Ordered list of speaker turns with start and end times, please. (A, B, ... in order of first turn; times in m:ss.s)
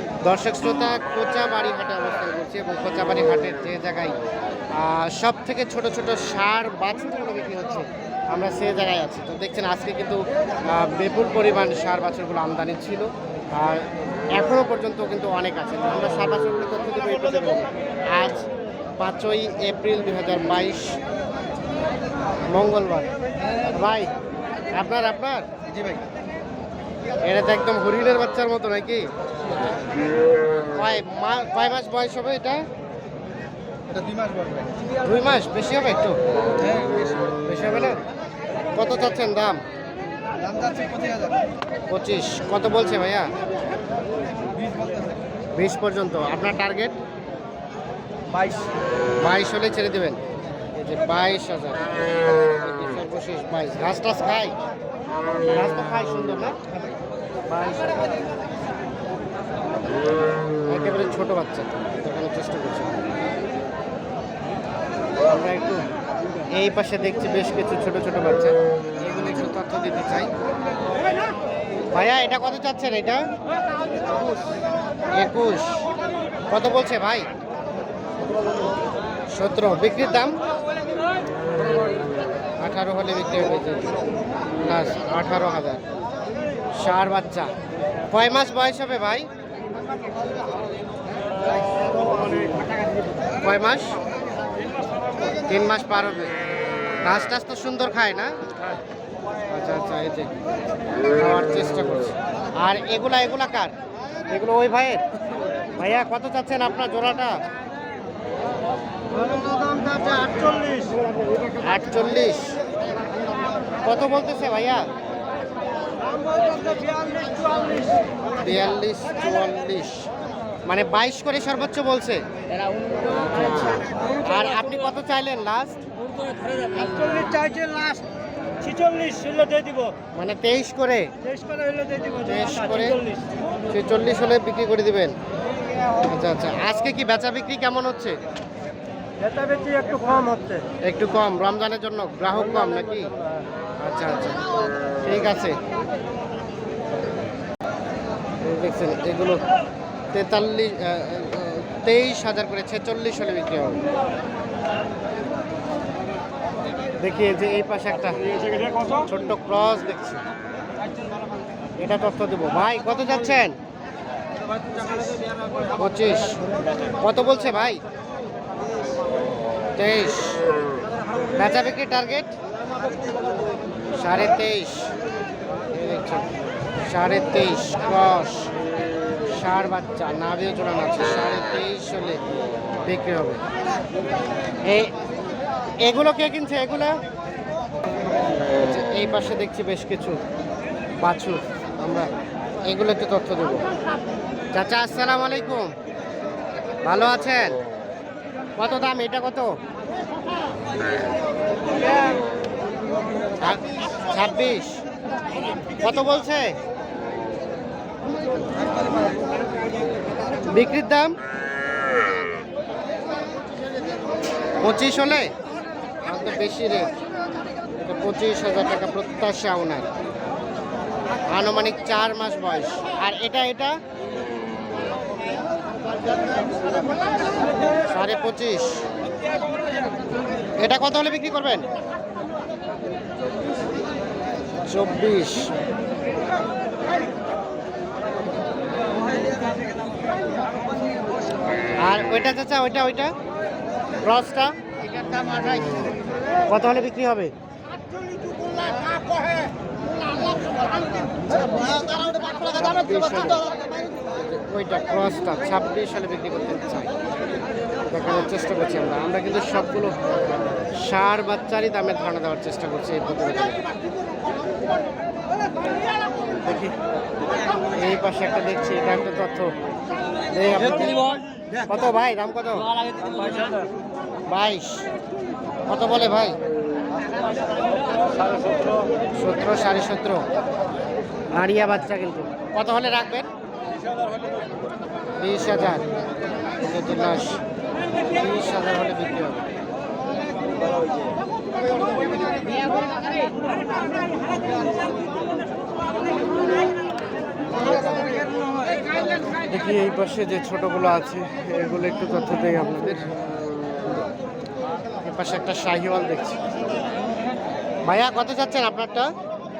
0:00.2-0:04.2 A
0:04.8-0:18.5 A
0:19.0-0:21.0 A
0:22.5-0:23.1 A
0:23.7-0:24.1 A
0:24.7-0:25.5 A
0:27.2-0:29.1 A
0:30.7-0:32.6 A
0:33.9-0:34.7 B
0:35.0-0:36.2 A
0:37.4-0:38.0 A
0:38.7-0:39.6 A
0:40.4-0:41.4 B
0:41.9-0:43.3 A
0:44.6-0:44.9 B
0:45.6-0:47.0 A
0:48.3-0:48.7 B
0:49.2-0:50.2 A
0:50.8-0:54.5 A
0:55.5-0:56.9 A
0:57.5-0:58.1 A
1:00.7-1:03.1 A
1:05.3-1:05.8 A
1:06.5-1:10.3 A
1:11.9-1:13.2 A
1:15.1-1:15.8 A
1:16.5-1:17.3 A
1:19.3-1:20.4 A
1:22.6-1:24.0 A
1:24.6-1:25.8 A
1:26.7-1:27.5 A
1:28.1-1:29.3 A
1:33.4-1:34.0 A
1:35.4-1:36.3 A
1:37.0-1:38.4 A
1:39.5-1:40.3 A
1:41.1-1:43.7 A
1:44.3-1:45.0 A
1:45.8-1:47.4 A
1:49.1-1:51.0 B
1:51.6-1:52.6 A
1:53.8-1:54.8 A
1:56.0-1:58.1 B
1:58.4-2:00.1 A
2:00.6-2:02.2 A
2:03.2-2:05.8 A
2:06.5-2:08.0 B
2:08.6-2:09.9 B
2:10.1-2:11.1 A
2:11.2-2:13.2 B
2:12.2-2:13.0 A
2:13.7-2:15.1 A
2:16.0-2:18.2 A
2:19.2-2:20.6 B
2:20.8-2:23.1 A
2:23.8-2:24.4 A
2:25.0-2:25.6 A
2:28.4-2:29.4 A
2:30.1-2:33.8 A
2:37.0-2:40.2 A
2:41.8-2:43.6 A
2:44.7-2:45.2 B
2:45.7-2:46.4 A
2:47.0-2:47.8 A
2:49.8-2:50.4 A
2:51.3-2:52.3 A
2:53.9-2:54.9 A
2:55.7-2:56.3 A
2:56.8-2:58.5 A
2:59.3-3:02.2 A
3:02.8-3:03.4 A
3:04.6-3:04.9 A
3:05.8-3:07.0 A
3:08.5-3:10.2 A
3:11.0-3:12.1 A
3:12.6-3:13.6 A
3:14.5-3:15.7 A
3:16.8-3:17.6 A
3:18.6-3:19.5 A
3:23.4-3:24.8 A
3:25.8-3:26.6 A
3:30.5-3:31.1 A
3:34.6-3:35.3 A
3:36.0-3:36.9 A
3:37.8-3:39.9 A
3:41.3-3:43.8 A
3:47.8-3:48.8 A
3:50.6-3:51.7 A
3:54.6-3:55.5 A
4:01.8-4:03.1 A
4:04.0-4:05.8 A
4:06.5-4:07.3 A
4:08.4-4:09.4 B
4:11.3-4:12.4 B
4:12.4-4:13.5 A
4:14.5-4:16.9 A
4:17.9-4:20.0 A
4:20.7-4:23.6 A
4:26.4-4:26.7 A
4:27.7-4:29.5 A
4:30.3-4:31.1 A
4:31.6-4:32.7 A
4:34.3-4:34.9 A
4:35.6-4:36.4 A
4:39.2-4:40.2 A
4:41.3-4:43.3 A
4:45.2-4:45.8 A
4:46.6-4:47.4 A
4:48.1-4:49.5 A
4:59.4-5:03.1 A
5:05.0-5:06.4 A
5:07.8-5:09.1 A